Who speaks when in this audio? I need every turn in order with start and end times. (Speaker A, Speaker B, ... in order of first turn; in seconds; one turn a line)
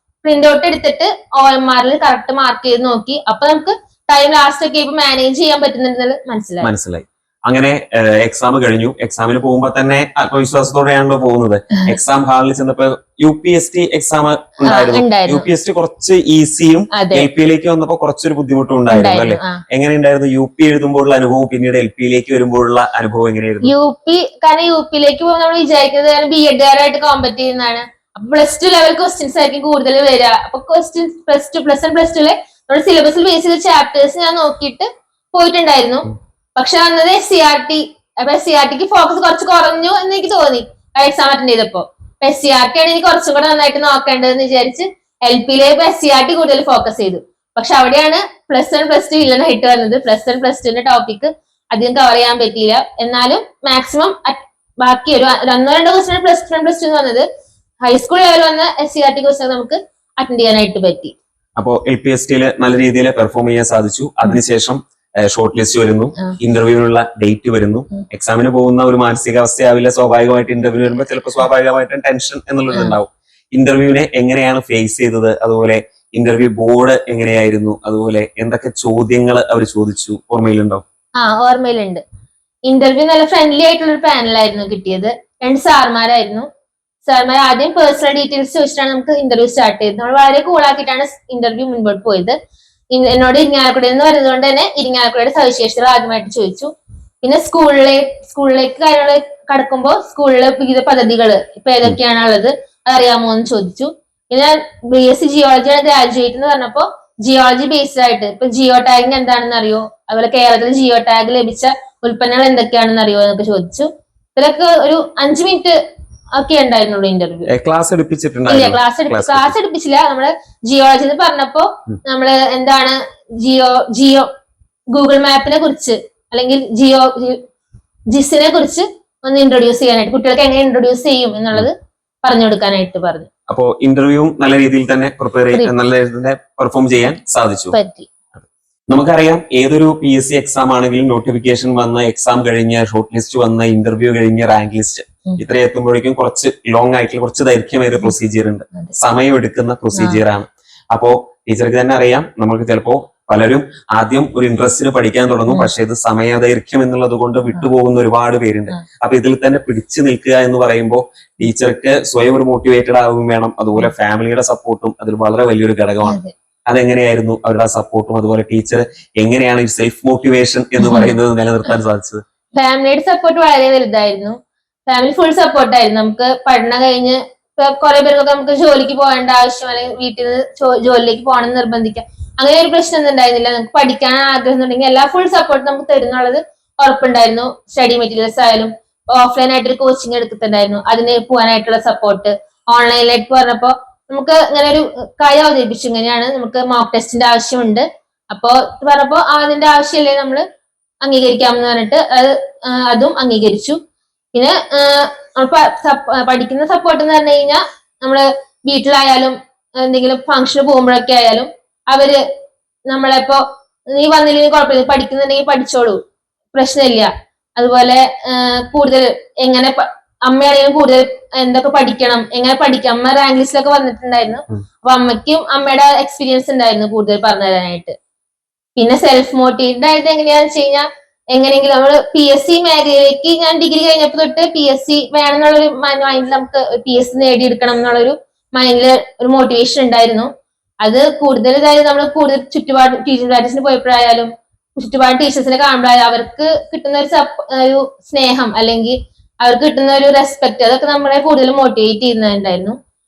Speaker A: 0.2-6.7
Speaker B: 6.6-23.7
Speaker A: 14.7-15.4
Speaker A: 16.9-17.3
Speaker A: 18.9-19.6
Speaker A: 23.6-57.2
Speaker A: 57.9-61.1
Speaker B: 61.6-80.8
Speaker A: 72.7-73.0
Speaker A: 81.2-82.0
Speaker A: 82.7-86.5
Speaker A: 87.0-92.4
Speaker A: 92.9-96.7
Speaker A: 97.2-115.8
Speaker A: 116.4-117.5
Speaker B: 117.5-119.5
Speaker A: 118.5-124.3
Speaker A: 124.9-127.4
Speaker A: 128.1-133.3
Speaker B: 133.5-137.8
Speaker A: 137.7-138.1
Speaker B: 138.9-172.2
Speaker A: 150.0-150.2
Speaker A: 166.1-166.3
Speaker A: 170.8-171.2
Speaker A: 172.6-174.4
Speaker A: 174.9-200.4
Speaker A: 201.0-203.8
Speaker A: 204.3-212.2
Speaker A: 212.9-213.4
Speaker A: 213.9-216.0
Speaker A: 216.5-227.9
Speaker A: 228.8-240.3
Speaker A: 240.8-252.8